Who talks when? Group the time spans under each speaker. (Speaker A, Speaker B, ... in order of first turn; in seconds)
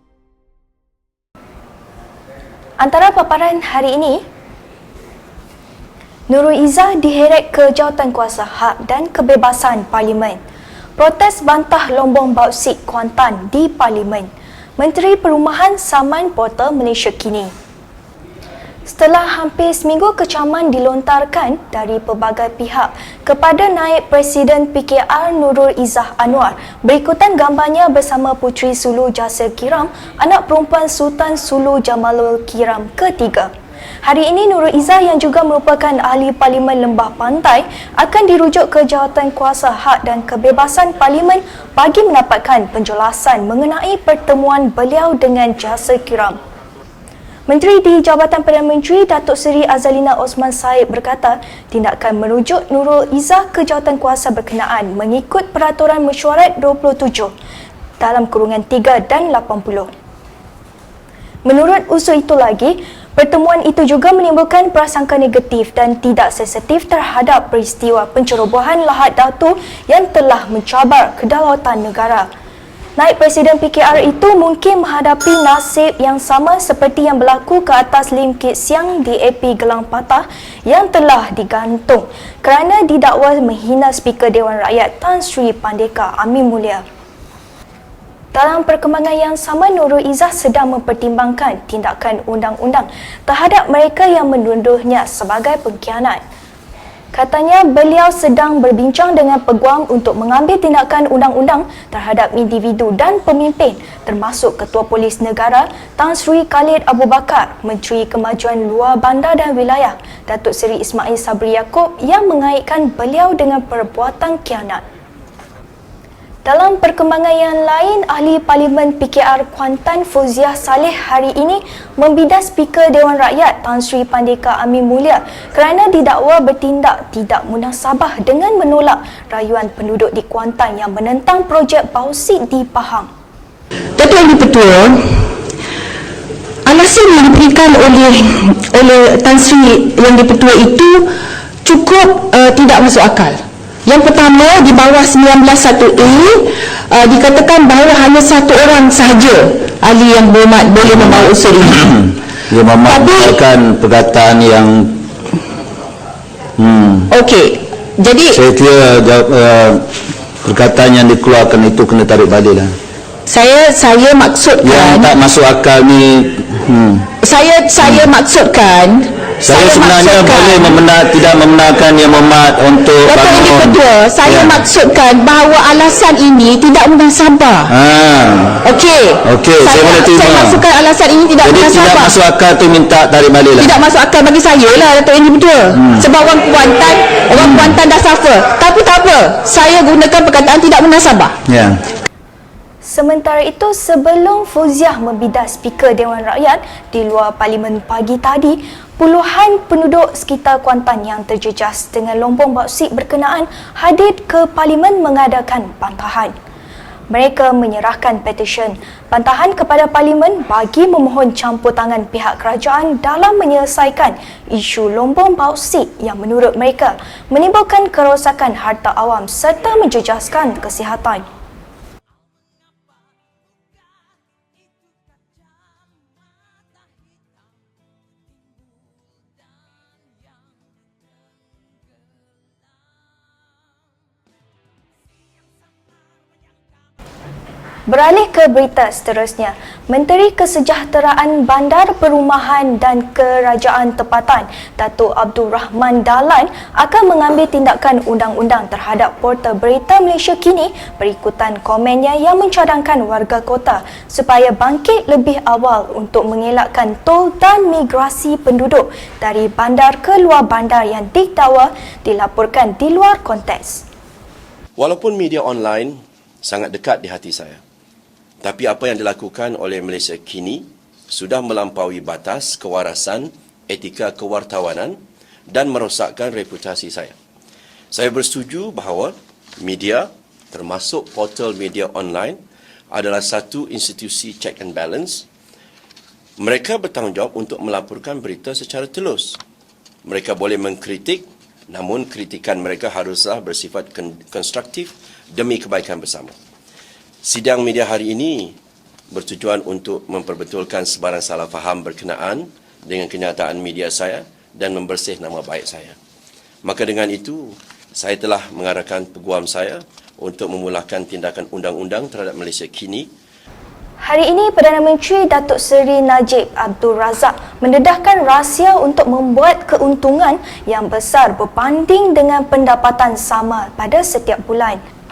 Speaker A: 2.8-4.2, 6.3-10.4, 11.0-17.5, 18.9-33.5, 34.0-46.4, 47.5-57.3, 58.0-59.9, 61.5-72.3, 73.0-86.8, 88.3-96.2, 97.1-114.8, 116.5-133.1, 192.8-206.3, 207.1-221.3, 237.9-263.9, 314.0-324.8
Speaker B: 134.0-135.3, 136.7-141.1, 141.6-151.9, 152.8-153.4, 157.1-158.4, 163.3-165.1, 167.2-170.7, 173.0-177.7, 178.7-182.2, 183.6-191.4
Speaker C: 150.8-155.0, 156.6-157.1, 158.3-159.9, 160.4-162.7, 164.6-167.1, 167.8-168.1, 169.4-174.6, 177.7-178.7, 179.2-180.7, 181.4-183.7, 185.7-186.1, 187.3-187.8, 191.5-191.8
Speaker D: 264.8-267.6, 268.4-275.0, 275.5-277.1, 277.9-282.4, 282.9-285.3, 286.4-289.4, 290.1-296.3, 297.2-298.6, 299.1-305.9, 306.6-313.1